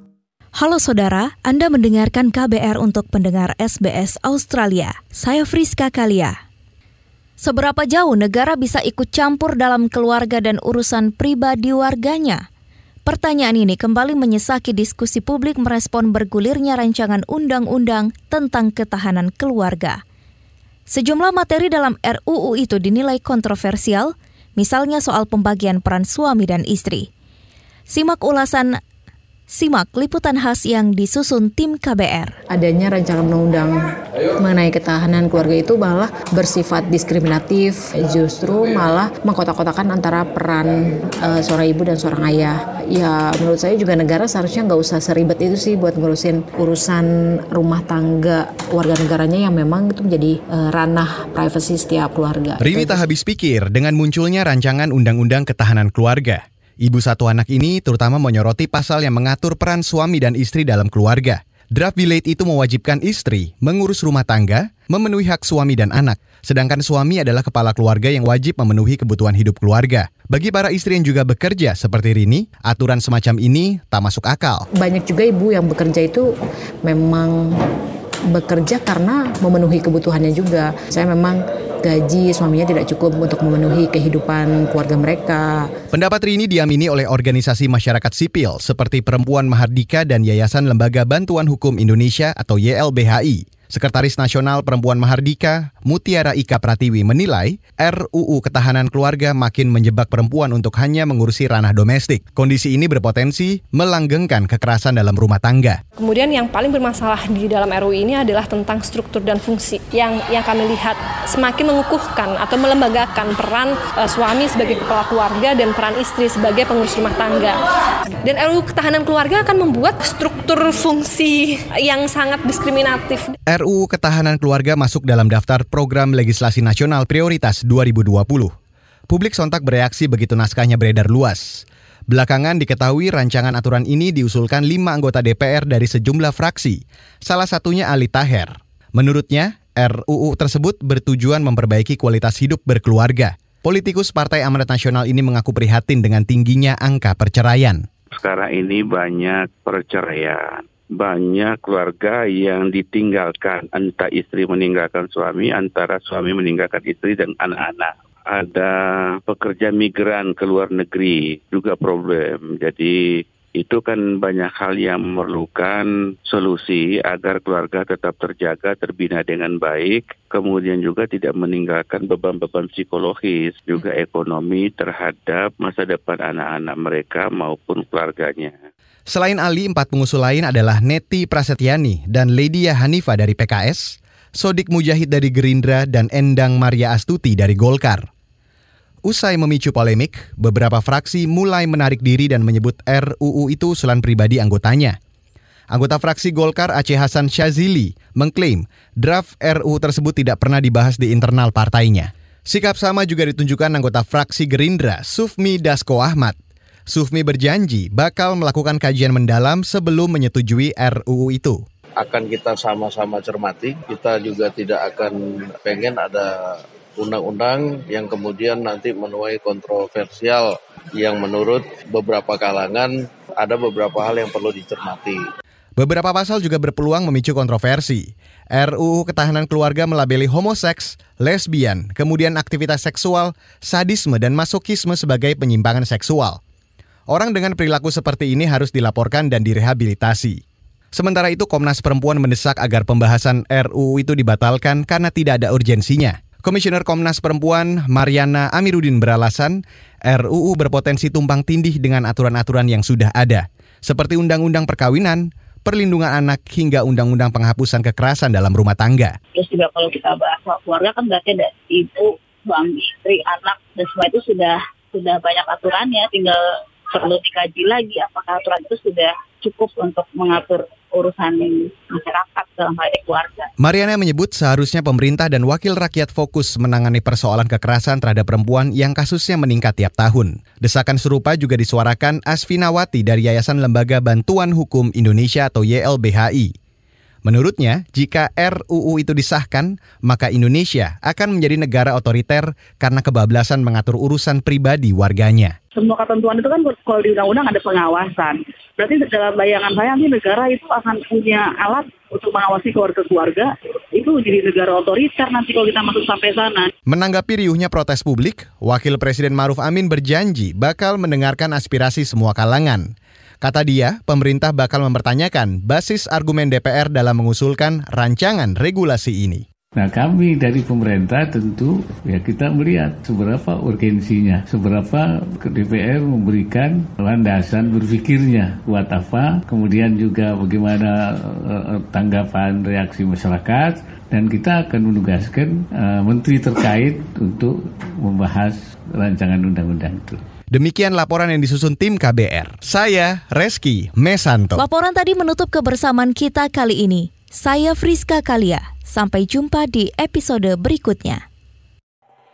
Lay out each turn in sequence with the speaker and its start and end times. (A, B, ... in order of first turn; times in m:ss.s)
0:00.5-0:06.4 A
0:07.4-0:12.4 A
0:13.0-0:20.0 A
0:20.9-0:27.1 A
0:27.9-0:28.8 A
0:29.5-0:32.3 A
0:32.5-0:33.8 B
0:34.4-0:53.0 B
0:52.6-1:14.7 C
1:14.8-1:16.3 B
1:16.8-1:17.4 B
1:18.3-1:25.7 B
1:25.9-1:45.8 C
1:46.0-1:57.6 D
1:58.2-2:03.3 D
2:03.5-2:08.5 C
2:09.1-2:27.9 C
2:28.1-2:38.7 E
2:39.2-2:43.0 E
2:43.6-2:58.5 E
2:59.1-3:08.1 C
3:09.0-3:15.0 C
3:15.7-3:26.4 C
3:26.9-3:31.6 C
3:32.0-3:45.2 F
3:45.8-3:56.4 C
3:57.1-4:00.4 C
4:00.9-4:19.2 C
4:19.3-4:33.5 G
4:33.6-4:46.5 C
4:47.2-4:55.5 C
4:55.7-5:06.7 G
5:06.9-5:19.4 C
5:19.8-5:40.2 H
5:40.5-5:44.6 C
5:44.6-5:51.2 A